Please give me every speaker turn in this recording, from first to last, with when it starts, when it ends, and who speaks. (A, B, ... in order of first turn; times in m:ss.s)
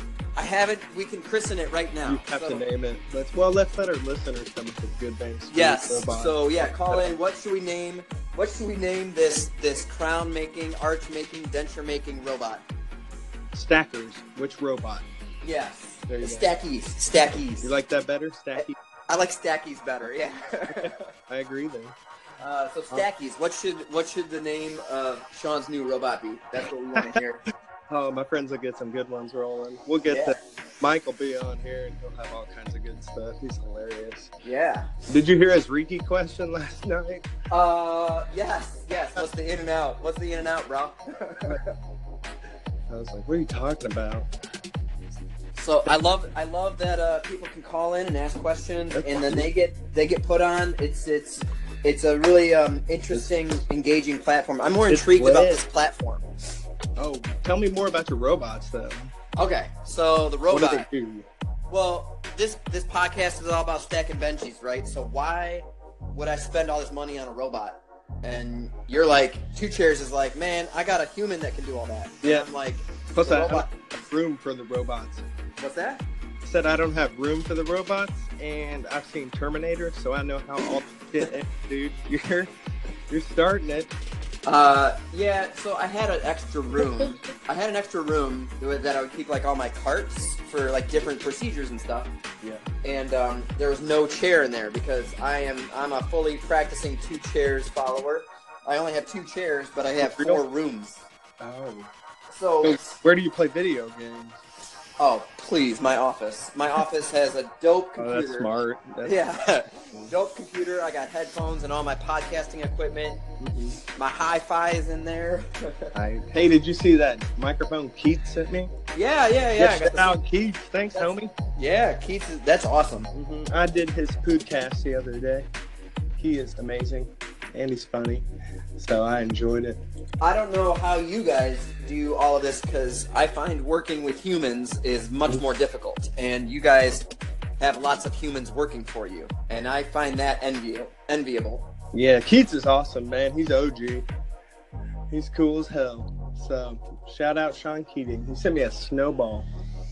0:00.3-0:02.6 A
0:02.1-0:07.1 B
0:05.5-0:12.6 A
0:13.5-0:15.1 B
0:15.4-0:17.7 A
0:16.1-0:16.5 B
0:17.6-0:18.8 B
0:18.6-0:21.1 A
0:20.7-0:22.0 B
0:22.4-0:27.4 A
0:27.9-0:34.3 B
0:30.0-0:30.4 A
0:34.4-0:34.9 A
0:35.1-0:37.3 B
0:37.5-0:41.7 A
0:42.9-0:44.3 B
0:45.6-0:56.3 A
0:48.9-0:49.5 B
0:54.9-0:55.6 B
0:57.0-0:59.1 B
0:59.3-1:00.9 A
1:00.5-1:01.3 B
1:01.7-1:13.7 A
1:12.2-1:12.5 B
1:13.1-1:15.2 B
1:15.6-1:16.0 A
1:16.4-1:22.5 B
1:23.1-1:23.9 B
1:24.4-1:32.1 A
1:32.8-1:41.0 A
1:40.0-1:40.4 B
1:41.4-1:41.9 B
1:42.3-1:42.9 A
1:42.6-1:44.4 B
1:45.0-1:48.5 A
1:48.0-1:49.2 B
1:49.0-1:53.2 A
1:53.4-1:53.8 B
1:54.0-1:55.9 A
1:55.9-1:58.7 B
1:58.9-2:00.2 A
1:59.6-2:01.3 B
2:00.9-2:03.1 A
2:03.1-2:05.5 B
2:06.2-2:09.8 B
2:10.2-2:17.1 A
2:17.6-2:21.7 A
2:21.9-2:24.1 B
2:25.1-2:29.5 B